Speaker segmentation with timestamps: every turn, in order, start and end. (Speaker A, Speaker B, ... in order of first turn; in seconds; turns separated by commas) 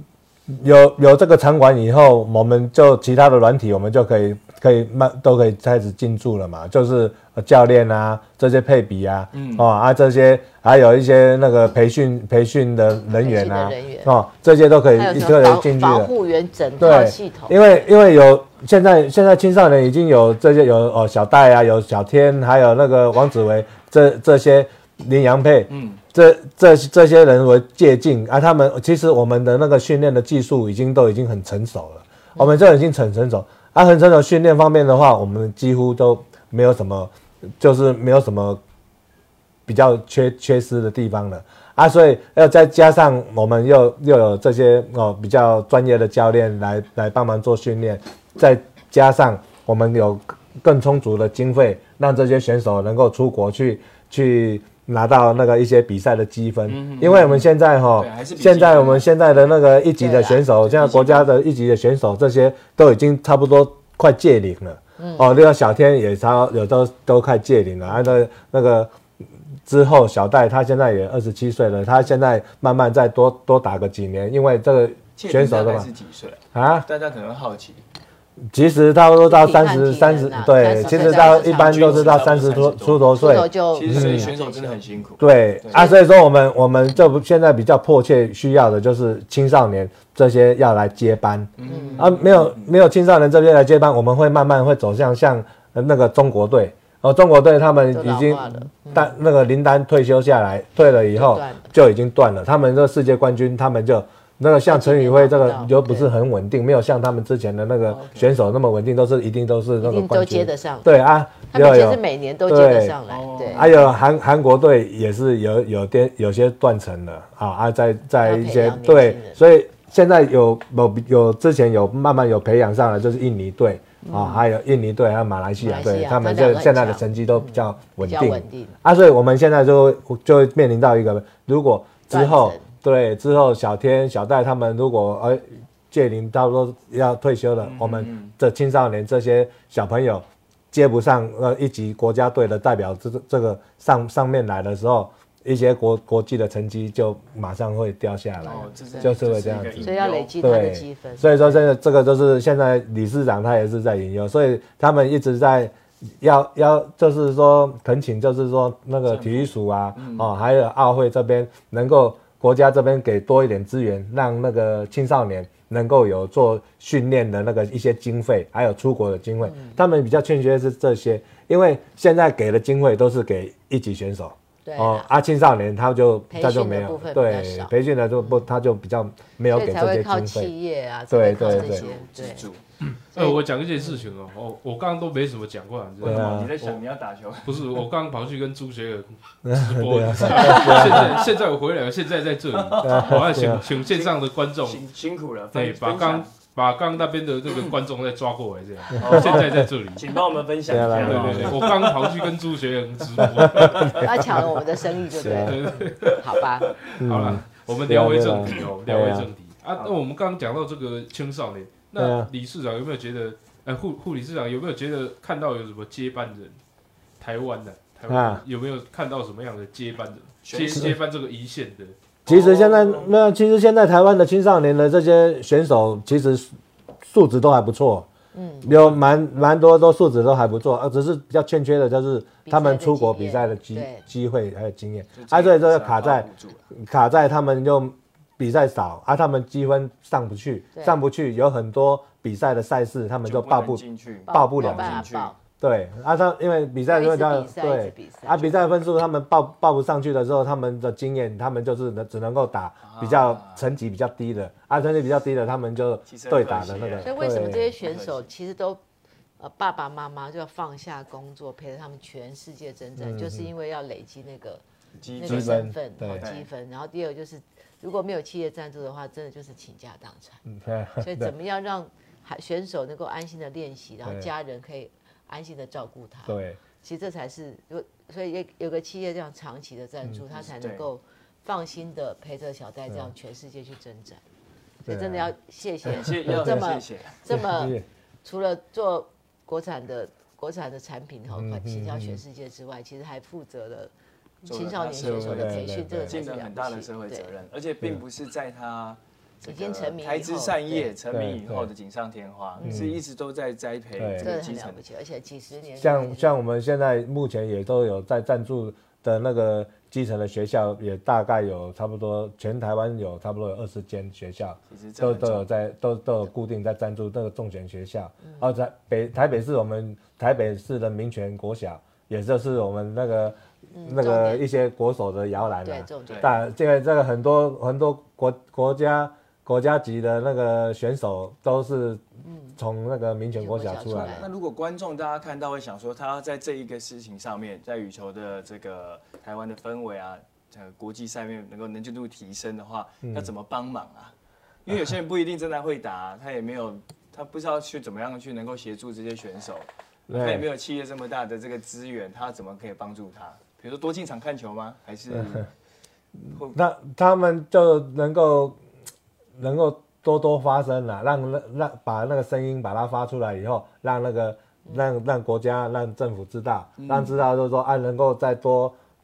Speaker A: 0.5-16.1, Speaker B: 9.3-9.7, Speaker C: 13.2-14.1, Speaker C: 14.9-17.9, Speaker A: 16.8-38.6, Speaker B: 25.7-26.0, Speaker A: 39.7-69.0, Speaker B: 56.7-59.1, Speaker C: 60.0-60.4, Speaker B: 60.6-61.3, Speaker C: 65.0-65.3, Speaker A: 69.7-75.9, Speaker B: 75.2-77.8, Speaker A: 76.5-76.8, Speaker A: 78.5-84.3, Speaker C: 79.3-82.3, Speaker B: 80.8-85.9, Speaker C: 83.2-84.8, Speaker A: 85.2-113.0, Speaker C: 85.7-86.0, Speaker B: 91.6-92.8, Speaker C: 91.6-92.3, Speaker C: 97.9-99.2, Speaker C: 101.1-101.7, Speaker C: 104.6-106.1, Speaker B: 107.9-108.3, Speaker C: 109.8-110.9, Speaker C: 111.5-113.7, Speaker B: 113.1-114.0, Speaker A: 113.5-180.5, Speaker C: 118.2-119.4, Speaker C: 124.0-124.5, Speaker C: 125.6-128.8, Speaker C: 132.1-132.6, Speaker B: 137.6-138.3, Speaker C: 148.4-149.2, Speaker B: 148.4-150.4, Speaker C: 149.8-151.6, Speaker B: 159.1-160.3, Speaker C: 169.4-169.8, Speaker C: 174.6-175.1, Speaker C: 176.3-178.4, Speaker C: 179.5-182.5, Speaker A: 181.1-181.8, Speaker B: 181.4-182.6, Speaker D: 182.9-186.8, Speaker C: 183.1-184.1, Speaker B: 186.0-187.8, Speaker A: 186.0-186.6, Speaker D: 187.4-194.8, Speaker A: 189.4-191.2, Speaker B: 190.5-191.3, Speaker B: 192.5-196.3, Speaker A: 192.8-193.6, Speaker D: 195.5-200.1, Speaker B: 197.5-197.8, Speaker B: 199.0-202.3, Speaker A: 200.7-201.7, Speaker D: 200.7-204.4, Speaker B: 203.2-204.0, Speaker A: 203.2-204.0, Speaker C: 203.9-206.7, Speaker A: 205.2-205.6, Speaker D: 205.3-216.6, Speaker A: 207.0-209.3, Speaker A: 212.0-212.3, Speaker D: 217.2-222.0, Speaker A: 218.1-218.4, Speaker B: 220.4-220.9, Speaker B: 222.2-223.1, Speaker A: 222.2-226.5, Speaker A: 227.0-228.1, Speaker C: 228.3-228.7, Speaker A: 228.6-257.7, Speaker C: 232.4-234.0, Speaker B: 235.1-236.7, Speaker C: 240.7-241.0, Speaker B: 243.2-245.3, Speaker C: 244.3-245.4, Speaker C: 246.9-248.7, Speaker B: 252.8-253.6, Speaker B: 256.1-257.1, Speaker C: 257.0-258.8, Speaker B: 257.8-258.3, Speaker C: 259.4-264.6, Speaker A: 263.0-263.5, Speaker B: 265.0-266.4, Speaker C: 265.2-270.4, Speaker A: 265.2-266.3, Speaker A: 270.4-271.3, Speaker C: 271.0-284.2, Speaker A: 274.0-274.3, Speaker A: 276.2-276.6, Speaker B: 280.3-280.9, Speaker A: 284.8-285.3, Speaker C: 284.9-293.9, Speaker B: 285.9-287.2, Speaker A: 285.9-286.7, Speaker A: 287.3-287.8, Speaker A: 291.4-292.2, Speaker C: 294.4-297.3, Speaker B: 294.4-304.8, Speaker A: 295.0-296.2, Speaker C: 299.4-300.9, Speaker A: 301.1-301.7, Speaker C: 302.6-303.0, Speaker A: 302.6-303.0, Speaker A: 304.0-304.3, Speaker C: 304.2-306.4, Speaker A: 305.8-332.0, Speaker B: 314.7-315.5, Speaker C: 323.7-324.4, Speaker C: 325.6-326.4, Speaker C: 332.2-332.6, Speaker A: 332.6-334.3, Speaker C: 333.4-334.3, Speaker B: 333.9-344.1, Speaker A: 343.0-343.3, Speaker B: 344.6-355.5, Speaker A: 350.1-350.4, Speaker A: 356.5-358.6, Speaker A: 359.4-368.8, Speaker B: 366.8-367.2